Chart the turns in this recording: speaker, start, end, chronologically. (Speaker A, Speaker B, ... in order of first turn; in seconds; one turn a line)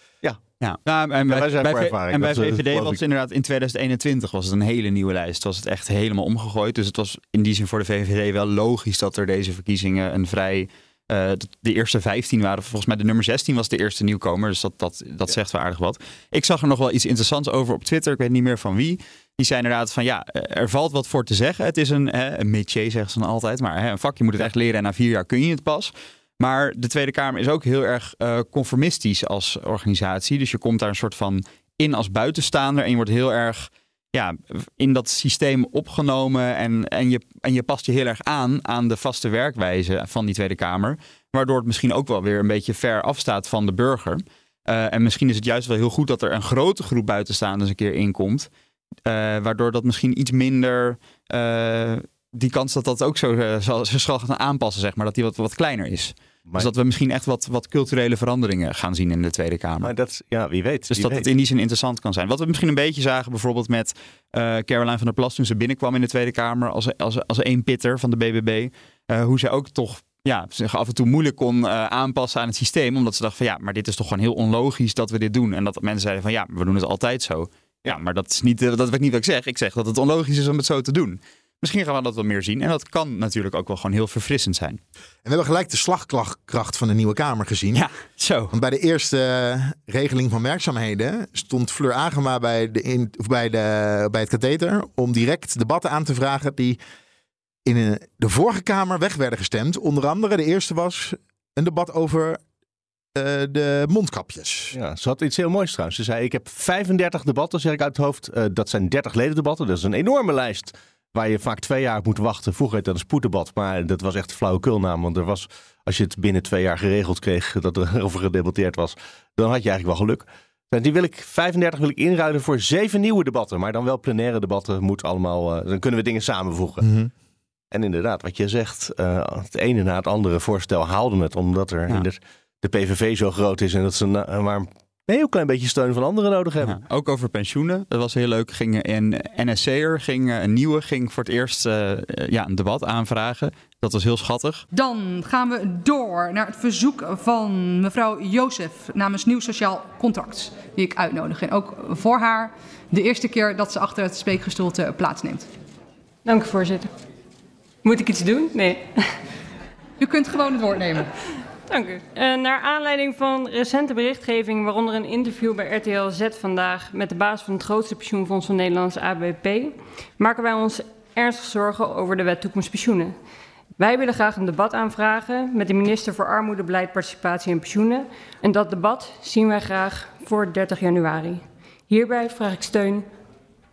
Speaker A: 0.6-48.5
Speaker B: 1.3-3.0
Speaker A: 49.0-59.9
Speaker B: 56.5-56.7
Speaker B: 59.8-61.3
Speaker A: 60.9-84.8
Speaker C: 85.2-87.8
Speaker A: 87.7-88.5
Speaker C: 88.5-96.8
Speaker C: 97.6-102.4
Speaker C: 103.1-104.7
Speaker B: 104.7-126.8
Speaker C: 126.8-127.1
Speaker B: 127.7-136.8
Speaker A: 136.6-144.6
Speaker D: 144.7-155.5
Speaker E: 156.2-156.9
Speaker E: 157.8-158.9
Speaker D: 160.0-161.1
Speaker E: 161.7-173.1
Speaker E: 173.8-183.1